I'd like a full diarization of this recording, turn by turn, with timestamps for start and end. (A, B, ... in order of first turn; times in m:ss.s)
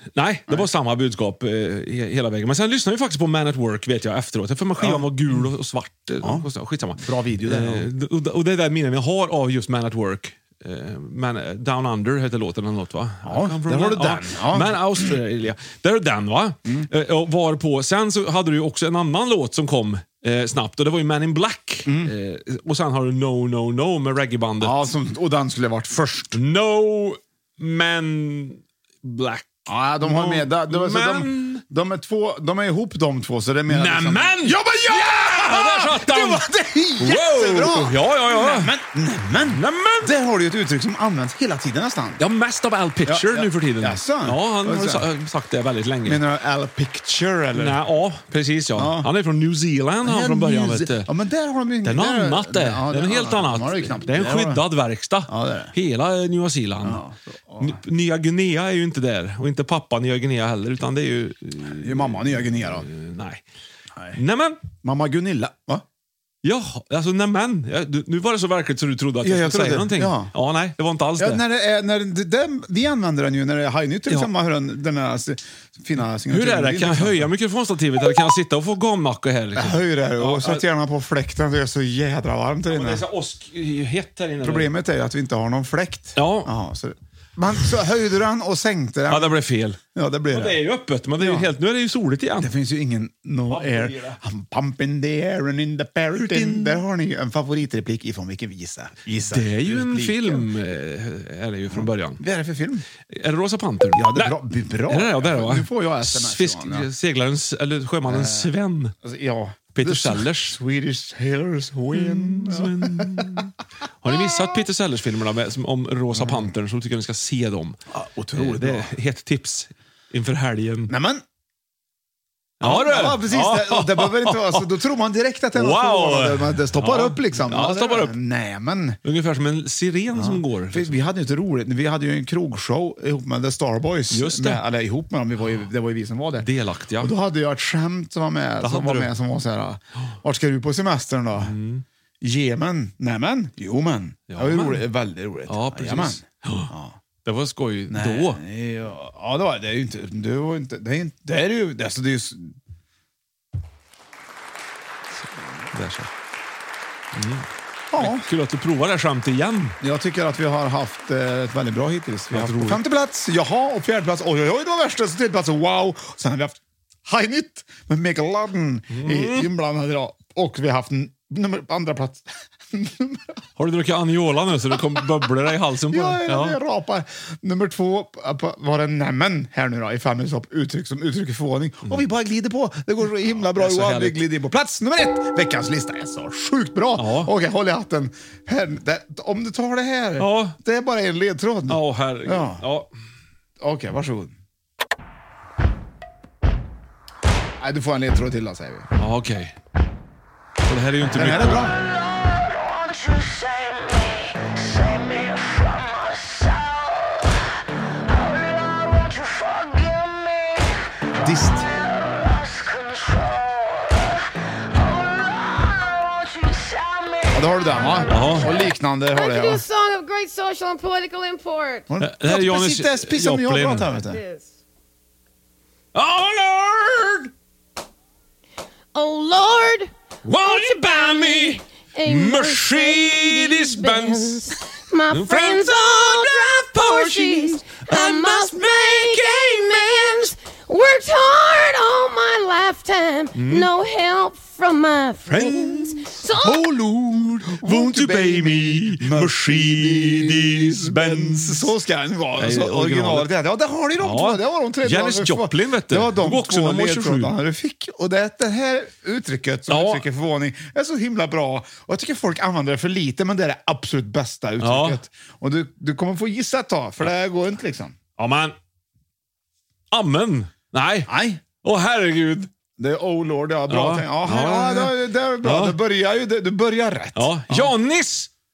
0:00.2-0:24.8 A
0:04.8-0:05.4 B
0:06.2-0:06.5 B
0:07.0-0:07.9 B
0:13.2-0:15.2 B
0:21.9-0:22.1 B
0:24.6-0:26.4 B
0:26.3-0:31.6 A
0:29.7-0:42.2 B
0:33.7-0:36.5 A
0:37.0-0:38.7 A
0:39.4-0:40.1 A
0:42.2-0:46.2 A
0:43.1-0:45.1 B
0:46.0-0:47.8 B
0:47.5-0:51.1 A
0:48.8-0:49.1 B
0:50.0-0:54.6 B
0:51.8-0:57.0 A
0:55.3-0:55.7 B
0:56.8-0:57.8 B
0:57.6-1:03.4 A
1:01.7-1:02.9 B
1:04.1-1:04.6 A
1:04.8-1:05.8 B
1:06.4-1:11.4 A
1:09.2-1:10.3 B
1:11.2-1:17.3 B
1:16.3-1:20.6 A
1:19.6-1:23.0 B
1:22.7-1:24.7 A
1:24.4-1:29.3 B
1:26.2-1:26.5 A
1:29.1-1:29.8 A
1:29.9-1:30.6 B
1:30.3-1:32.5 A
1:31.2-1:31.5 B
1:32.4-1:40.5 B
1:33.5-1:34.2 A
1:36.2-1:36.8 A
1:39.3-1:42.2 A
1:41.7-1:42.9 B
1:43.1-1:44.4 A
1:43.9-1:46.9 B
1:44.9-1:48.9 A
1:48.1-1:53.5 B
1:49.8-1:50.6 A
1:51.9-1:57.8 A
1:56.1-1:56.5 B
1:57.9-1:58.9 B
1:58.3-2:00.9 A
2:00.9-2:01.2 B
2:02.6-2:04.7 A
2:02.6-2:09.0 B
2:05.6-2:08.1 A
2:09.0-2:11.0 A
2:10.1-2:16.5 B
2:14.1-2:14.6 A
2:16.4-2:17.1 A
2:17.0-2:21.6 B
2:18.6-2:19.1 A
2:21.4-2:21.8 A
2:22.2-2:27.0 B
2:24.3-2:24.9 A
2:25.5-2:26.7 A
2:27.2-2:28.4 A
2:27.9-2:32.6 B
2:35.7-2:36.1 A
2:37.1-2:39.8 A
2:37.9-2:38.3 B
2:39.8-2:53.2 B
2:42.3-2:42.8 A
2:48.9-2:49.5 A
2:53.6-2:56.6 A
2:55.9-3:12.6 B
3:03.3-3:04.2 A
3:07.0-3:07.3 A
3:10.2-3:10.6 A
3:11.7-3:12.9 A
3:13.6-3:14.4 B
3:17.6-3:18.9 B
3:19.0-3:19.6 A
3:20.6-3:21.7 A
3:21.0-3:21.8 B
3:31.2-3:31.7 B
3:37.3-3:39.6 B
3:38.0-3:38.7 A
3:39.1-3:41.9 C
3:41.9-3:44.2 B
3:42.0-3:43.9 A
3:44.0-3:44.5 C
3:45.9-3:47.3 A
3:48.9-3:49.9 C
3:50.2-3:54.6 A
3:50.4-4:06.7 C
3:55.1-4:00.1 A
4:03.3-4:03.7 A
4:05.3-4:06.1 A
4:06.4-4:28.0 B
4:07.3-4:11.7 A
4:12.4-4:13.3 A
4:14.0-4:17.3 A
4:19.7-4:20.0 A
4:24.6-4:25.0 A
4:28.2-4:28.6 A
4:29.9-4:32.5 A
4:31.1-4:31.4 B
4:32.8-4:37.7 B
4:33.7-4:35.8 A
4:37.2-4:38.3 A